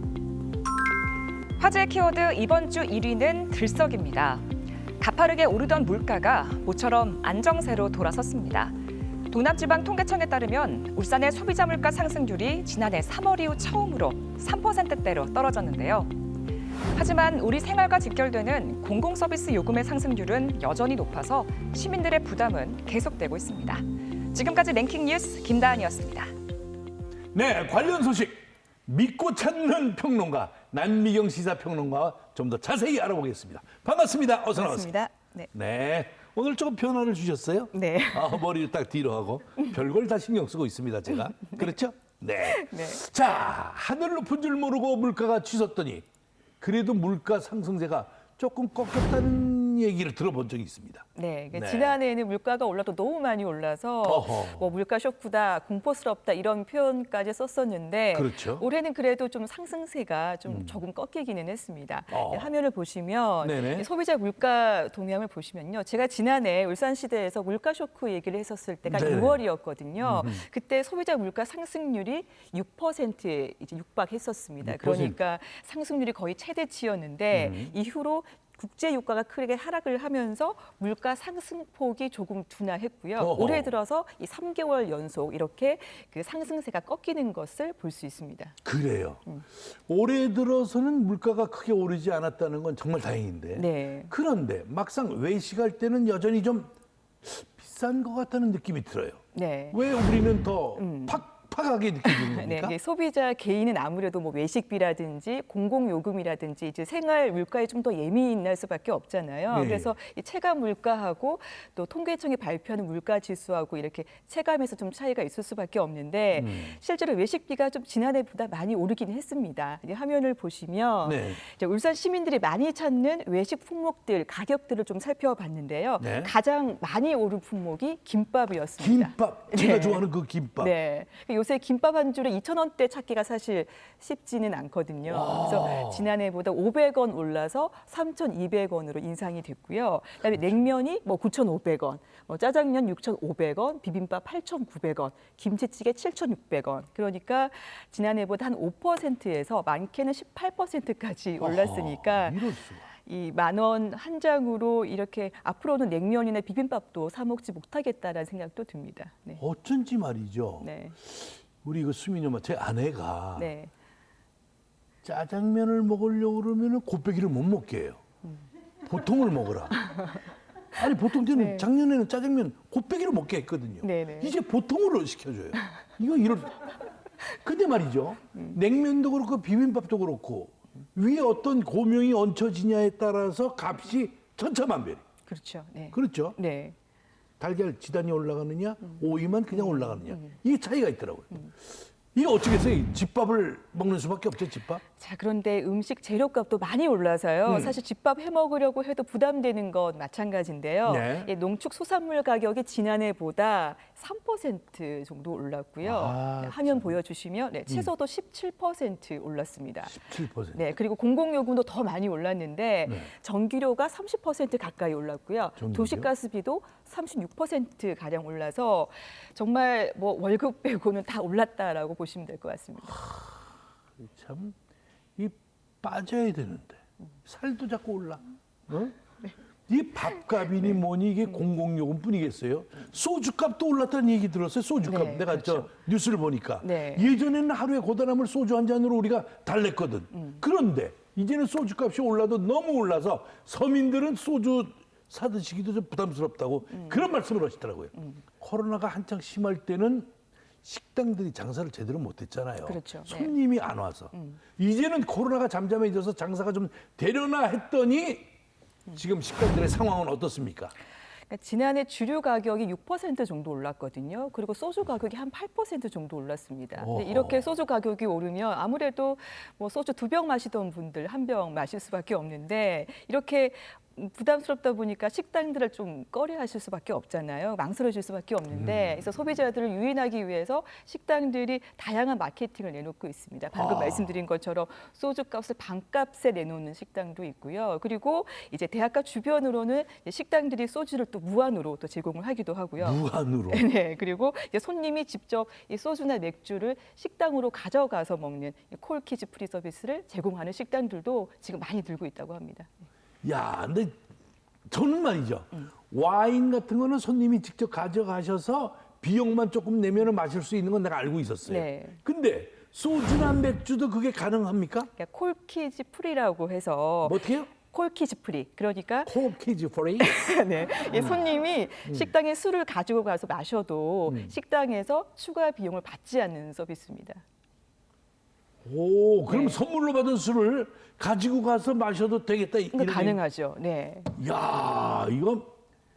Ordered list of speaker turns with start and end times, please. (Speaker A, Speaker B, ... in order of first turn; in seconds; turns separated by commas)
Speaker A: 1.6-4.5, Speaker A: 5.0-8.8, Speaker A: 9.3-16.1, Speaker A: 16.9-26.3, Speaker B: 27.3-34.9, Speaker C: 34.5-35.5, Speaker B: 35.5-46.0, Speaker C: 37.7-38.4, Speaker C: 42.5-43.0, Speaker B: 46.6-52.0, Speaker C: 51.1-88.6, Speaker B: 54.0-54.7, Speaker B: 58.1-58.7, Speaker B: 60.5-60.8, Speaker B: 62.1-62.5, Speaker B: 63.4-63.9, Speaker B: 68.9-69.4, Speaker B: 70.0-70.5, Speaker B: 74.6-75.2, Speaker B: 77.3-77.8, Speaker B: 83.2-83.7, Speaker B: 88.7-96.7, Speaker C: 93.5-94.1, Speaker B: 97.2-102.7, Speaker C: 99.3-99.8, Speaker C: 100.8-101.2, Speaker C: 102.0-130.1, Speaker B: 109.5-109.9, Speaker B: 116.3-116.8, Speaker B: 121.0-121.4, Speaker B: 126.0-126.3, Speaker B: 128.8-130.7, Speaker C: 130.6-159.4, Speaker B: 135.1-136.1, Speaker B: 151.4-152.9, Speaker B: 159.4-163.5, Speaker C: 160.6-161.0, Speaker C: 163.4-163.7, Speaker B: 165.0-168.0, Speaker B: 168.9-169.9, Speaker B: 170.8-176.6, Speaker C: 171.3-171.6, Speaker C: 173.8-174.3, Speaker B: 177.4-185.0, Speaker C: 185.3-186.8, Speaker B: 185.9-186.4, Speaker B: 187.4-191.5, Speaker C: 189.6-190.3, Speaker B: 192.1-194.8, Speaker C: 195.0-210.0, Speaker B: 197.5-197.8, Speaker B: 200.8-201.3, Speaker B: 205.8-207.0, Speaker B: 209.9-210.6, Speaker C: 210.5-223.0, Speaker B: 212.9-213.1, Speaker B: 215.6-216.1, Speaker B: 222.9-223.5, Speaker B: 224.0-224.6, Speaker B: 225.2-229.0, Speaker B: 229.7-250.1, Speaker C: 234.8-235.7, Speaker C: 236.6-237.1, Speaker B: 250.6-258.3, Speaker C: 252.7-253.3, Speaker C: 254.1-254.4, Speaker B: 258.9-260.7, Speaker C: 261.3-302.7, Speaker B: 266.8-267.4, Speaker B: 278.5-279.0, Speaker B: 283.6-284.2, Speaker B: 292.8-293.7, Speaker B: 303.2-303.9, Speaker B: 304.7-314.9, Speaker C: 311.5-312.0, Speaker C: 315.0-319.1, Speaker B: 317.0-317.5, Speaker B: 319.1-320.3, Speaker C: 320.0-327.2, Speaker B: 320.9-321.2, Speaker B: 324.1-324.3, Speaker B: 328.6-333.2, Speaker C: 329.3-329.6, Speaker C: 332.7-334.1, Speaker B: 334.2-335.5